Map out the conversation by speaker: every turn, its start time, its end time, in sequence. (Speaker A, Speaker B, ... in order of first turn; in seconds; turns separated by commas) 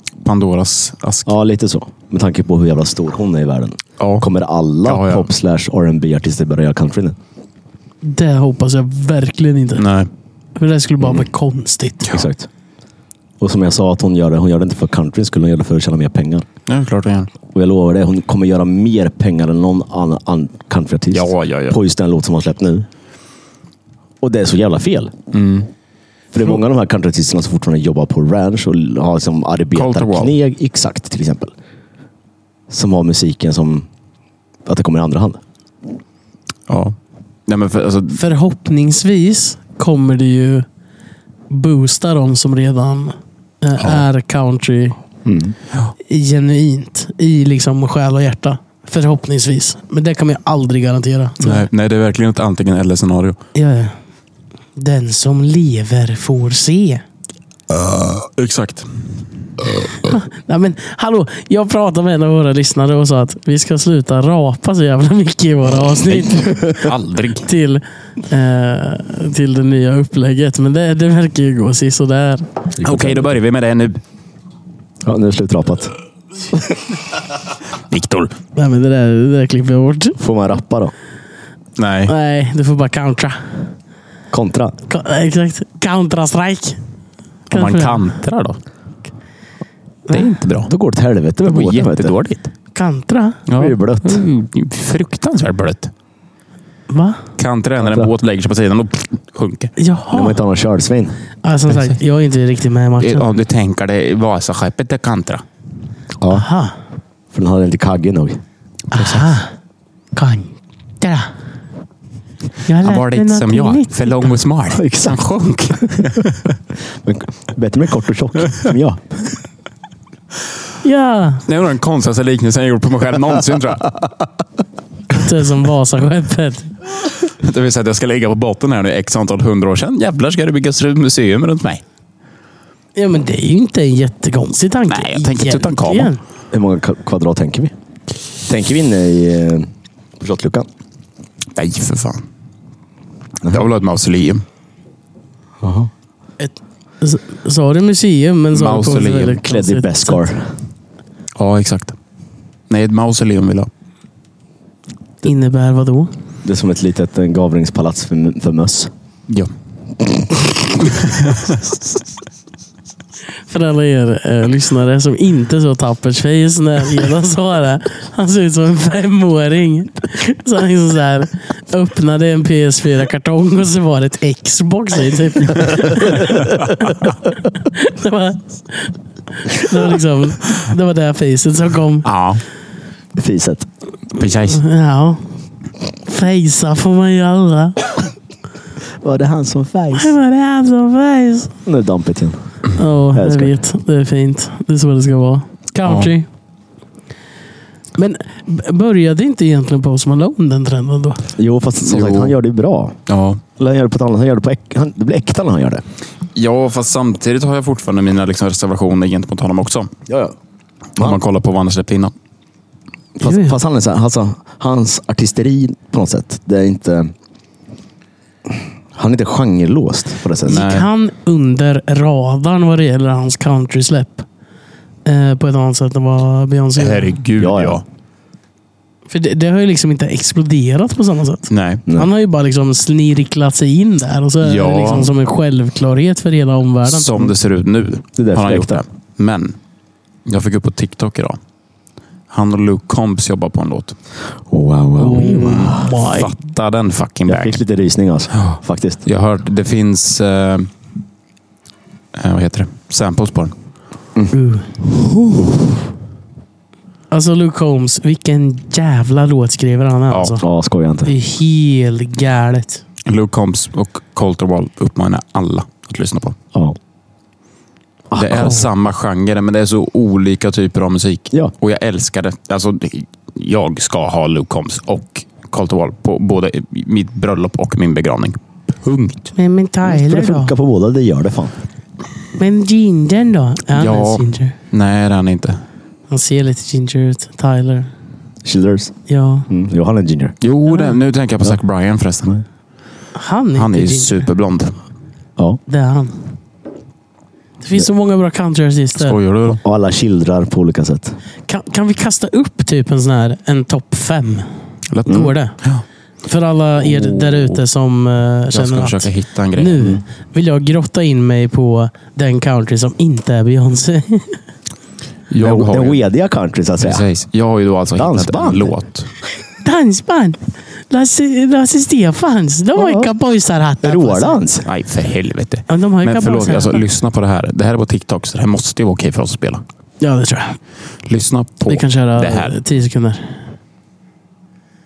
Speaker A: 0.2-1.3, Speaker B: 1.2-7.2, Speaker A: 4.0-4.2, Speaker A: 4.8-5.3, Speaker C: 8.0-9.8, Speaker A: 9.8-10.1, Speaker C: 10.6-12.1, Speaker B: 11.0-11.3, Speaker B: 12.1-12.5, Speaker B: 13.4-16.4, Speaker A: 16.7-17.3, Speaker B: 17.5-22.9, Speaker A: 21.1-21.8, Speaker B: 24.2-25.1, Speaker A: 25.3-25.7, Speaker B: 26.3-31.5, Speaker A: 29.7-30.3, Speaker B: 32.7-33.9, Speaker B: 34.7-35.4, Speaker A: 36.7-37.0, Speaker A: 37.5-38.2, Speaker C: 38.1-40.7, Speaker C: 41.5-45.0, Speaker B: 45.2-45.6, Speaker C: 46.0-51.7, Speaker A: 51.4-53.4, Speaker C: 53.5-54.0, Speaker C: 54.8-57.0, Speaker A: 57.7-58.9, Speaker A: 59.6-60.0, Speaker C: 60.0-66.9, Speaker A: 66.1-67.5, Speaker C: 67.4-72.5, Speaker B: 72.8-73.3, Speaker A: 72.8-74.0, Speaker B: 75.0-75.9, Speaker A: 77.9-78.3, Speaker C: 78.5-80.2, Speaker B: 80.2-80.9, Speaker A: 81.8-82.1, Speaker C: 82.1-83.6, Speaker B: 84.3-84.8, Speaker C: 84.9-86.8, Speaker C: 87.5-88.0, Speaker A: 87.5-88.6, Speaker C: 90.1-90.3, Speaker A: 90.1-90.7, Speaker B: 90.6-92.2, Speaker A: 91.4-92.5, Speaker C: 92.7-93.4, Speaker A: 93.5-95.9, Speaker B: 93.6-94.2, Speaker C: 96.9-97.2, Speaker A: 97.4-99.7, Speaker B: 97.8-98.1, Speaker C: 99.8-100.4, Speaker B: 100.1-101.2, Speaker C: 101.4-103.3, Speaker A: 103.0-105.4, Speaker B: 106.2-106.5, Speaker C: 106.3-106.8, Speaker B: 107.3-108.4, Speaker A: 108.9-109.3, Speaker C: 108.9-109.5, Speaker C: 110.1-111.3, Speaker C: 112.7-114.3, Speaker A: 112.8-116.5, Speaker B: 114.7-115.2, Speaker B: 117.0-119.3, Speaker C: 120.8-121.4, Speaker A: 121.5-124.0, Speaker C: 125.1-126.7, Speaker A: 127.3-131.8, Speaker C: 132.9-136.2, Speaker A: 134.9-136.1, Speaker B: 136.5-137.7, Speaker B: 138.4-140.7, Speaker A: 141.6-142.3, Speaker A: 143.4-144.4, Speaker B: 145.6-145.9, Speaker C: 146.4-150.2, Speaker A: 148.5-149.4, Speaker B: 149.4-150.5, Speaker A: 151.3-151.9, Speaker A: 152.7-153.7, Speaker C: 155.2-156.1, Speaker B: 156.4-158.9, Speaker A: 160.8-161.6, Speaker C: 163.5-182.1, Speaker A: 182.0-182.4, Speaker B: 183.2-183.7, Speaker A: 184.1-184.6, Speaker C: 184.5-185.2, Speaker C: 186.1-187.9, Speaker B: 189.0-190.1, Speaker C: 189.9-191.5, Speaker B: 191.7-192.4, Speaker C: 192.8-196.3, Speaker B: 193.1-193.6, Speaker A: 195.8-196.1, Speaker C: 197.9-201.3, Speaker B: 201.4-203.0, Speaker A: 201.8-202.4, Speaker A: 203.1-203.4, Speaker B: 203.6-205.8, Speaker A: 206.3-209.9, Speaker B: 210.1-210.3, Speaker A: 211.0-212.1, Speaker B: 213.2-217.1, Speaker C: 213.2-213.6, Speaker B: 218.9-220.7, Speaker A: 220.4-220.9, Speaker C: 220.4-224.3, Speaker C: 225.1-227.2, Speaker A: 226.8-227.8, Speaker B: 227.4-227.8, Speaker C: 229.1-237.3, Speaker A: 231.5-231.8, Speaker A: 234.4-235.1, Speaker A: 236.8-239.6, Speaker B: 238.2-238.8, Speaker A: 240.3-241.4, Speaker A: 242.3-243.9, Speaker B: 244.5-245.9, Speaker C: 245.0-246.3, Speaker A: 245.2-247.6, Speaker B: 247.3-249.0, Speaker A: 248.4-250.7, Speaker A: 252.1-253.5, Speaker C: 254.3-254.7, Speaker C: 257.1-260.4, Speaker B: 260.4-261.1, Speaker C: 261.1-262.8, Speaker A: 263.1-266.4, Speaker B: 268.1-268.6, Speaker A: 268.1-279.3, Speaker C: 279.4-280.6, Speaker B: 279.9-281.6, Speaker C: 282.4-284.6, Speaker A: 283.7-285.6, Speaker C: 286.1-287.9, Speaker B: 288.4-288.9, Speaker C: 289.1-289.5, Speaker B: 289.5-290.4, Speaker A: 290.4-292.4, Speaker C: 290.7-291.0, Speaker C: 293.1-294.2, Speaker A: 293.6-294.8, Speaker C: 295.7-296.3, Speaker C: 297.6-299.2, Speaker A: 299.0-299.6, Speaker B: 299.6-301.1, Speaker C: 301.5-304.5, Speaker A: 304.9-305.8, Speaker C: 305.1-305.6, Speaker C: 306.2-314.4, Speaker A: 306.8-307.6, Speaker A: 308.5-309.9, Speaker A: 315.3-316.0, Speaker B: 315.4-317.1, Speaker A: 316.8-319.1, Speaker B: 318.0-318.7, Speaker C: 319.6-324.4, Speaker B: 322.8-323.1, Speaker B: 323.8-324.6, Speaker A: 324.6-329.6, Speaker C: 325.7-326.8, Speaker C: 330.0-330.6, Speaker A: 331.1-332.6, Speaker C: 331.7-333.4